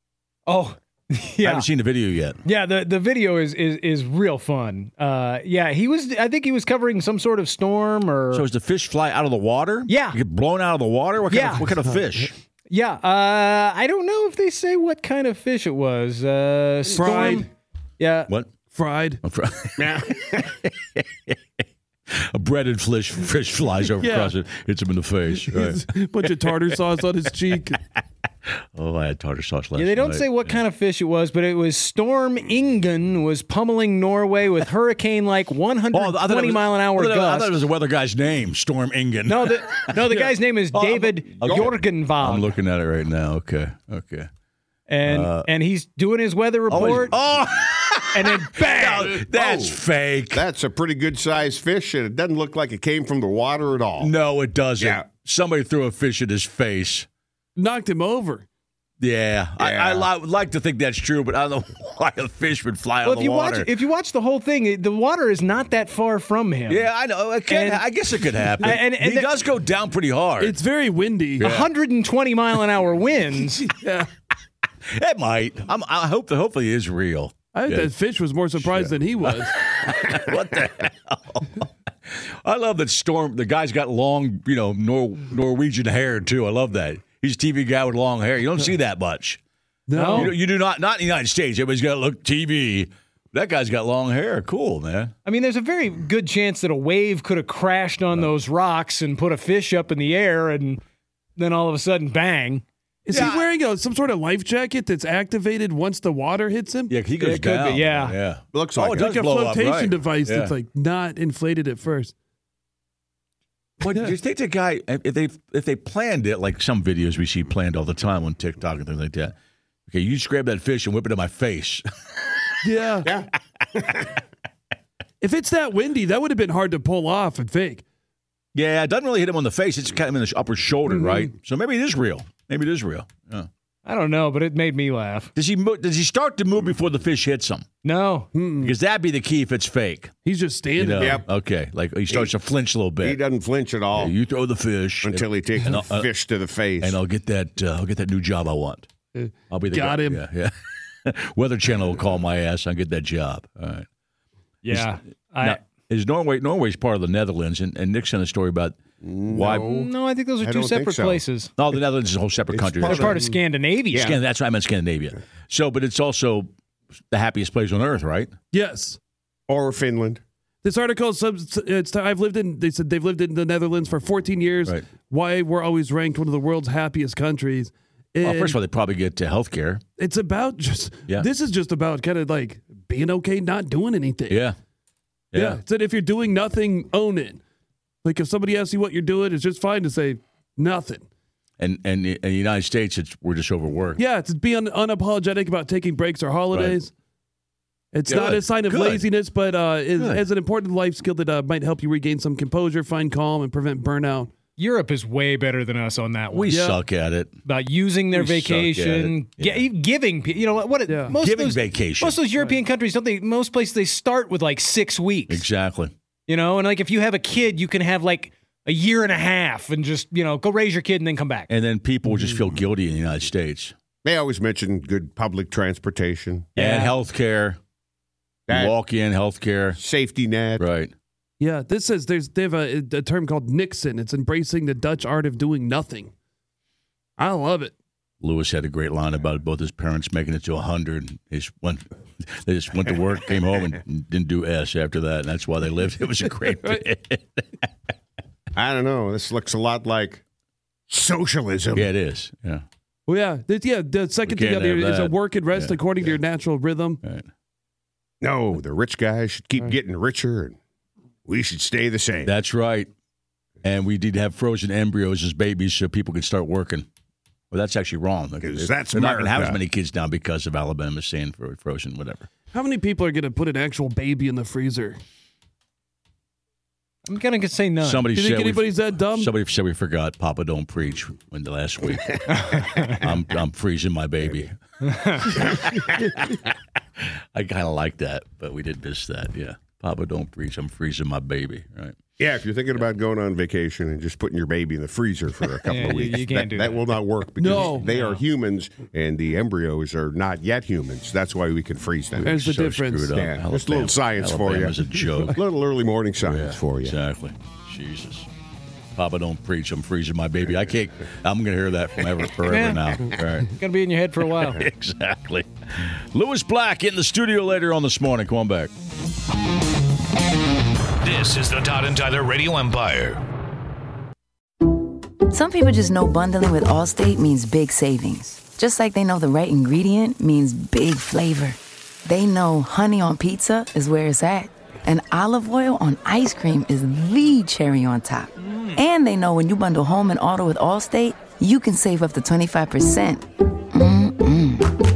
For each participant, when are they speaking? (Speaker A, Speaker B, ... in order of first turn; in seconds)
Speaker A: 0.5-1.7, 2.4-8.5, 9.9-10.2, 11.3-11.7, 12.7-17.5, 18.0-18.3, 29.8-37.6, 39.3-42.5, 44.9-47.1, 48.1-49.2, 63.0-66.9, 67.5-67.8, 68.6-69.3, 71.4-73.7, 90.0-90.3, 95.2-100.8, 101.4-102.6, 107.2-108.2, 133.8-135.3, 137.8-138.3, 154.6-155.6, 159.4-161.5, 162.8-164.1, 204.6-206.5, 207.4-215.5, 216.3-221.5, 226.6-226.9, 277.1-278.1, 282.5-282.9, 284.9-285.3, 295.6-296.9, 297.5-298.2, 312.5-314.6
Speaker B: 1.4-2.4, 8.3-12.3, 19.2-21.4, 22.3-26.8, 27.7-28.0, 28.8-30.6, 35.9-40.0, 40.7-44.3, 45.1-45.5, 46.7-50.5, 54.0-57.1, 59.0-63.7, 66.7-70.6, 71.4-71.7, 74.9-78.0, 78.5-89.4, 90.1-95.1, 103.1-103.5, 106.9-110.5, 113.8-119.3, 119.9-122.4, 128.5-133.5, 135.3-137.7, 138.6-140.1, 140.8-143.2, 143.9-146.1, 146.8-148.9, 149.5-153.9, 154.7-159.7, 161.6-163.2, 164.0-166.5, 167.1-168.3, 178.2-179.8, 184.3-184.6, 185.3-185.6, 191.6-194.0, 196.5-196.8, 198.1-199.1, 200.0-200.2, 206.3-207.3, 208.1-209.7, 211.2-212.2, 215.3-215.9, 221.5-223.7, 226.6-227.6, 228.5-229.8, 230.6-230.9, 238.2-247.7, 251.7-252.7, 254.2-256.1, 262.2-262.9, 263.6-266.9, 267.5-272.3, 277.8-284.6, 285.2-286.4, 287.3-292.0, 302.2-305.4, 306.2-308.3, 309.0-313.5, 314.6-318.7
Speaker C: 11.8-12.3, 16.9-17.5, 18.7-19.2, 24.0-24.3, 25.3-27.8, 40.1-40.4, 57.6-58.5, 70.4-71.5, 73.7-74.1, 77.5-79.5, 89.9-90.4, 103.1-107.0, 108.9-112.1, 122.6-123.1, 125.2-127.8, 130.9-131.3, 138.3-138.8, 140.2-141.2, 149.2-150.2, 168.5-169.0, 170.6-178.6, 180.0-184.4, 185.3-187.4, 188.0-191.1, 194.0-196.9, 197.9-204.3, 206.5-206.8, 210.9-211.2, 231.4-236.1, 237.2-237.7, 253.1-257.0, 272.5-275.0, 278.1-279.3, 297.4-297.9, 302.2-303.2
Speaker D: 19.8-20.5, 41.5-41.7, 49.3-54.1, 54.8-55.0, 59.6-60.1, 108.5-109.0, 123.1-124.1, 142.1-142.3, 143.0-144.1, 145.0-147.0, 159.0-161.2, 162.5-163.2, 163.9-164.2, 169.5-170.2, 224.0-226.5, 228.5-228.8, 229.8-230.7, 248.6-250.2, 250.9-251.9, 258.2-260.6, 261.3-262.3, 268.4-269.6, 282.5-282.7, 285.3-285.8, 292.2-302.3, 303.1-307.0
Speaker E: 321.0-323.2
Speaker F: 325.3-344.7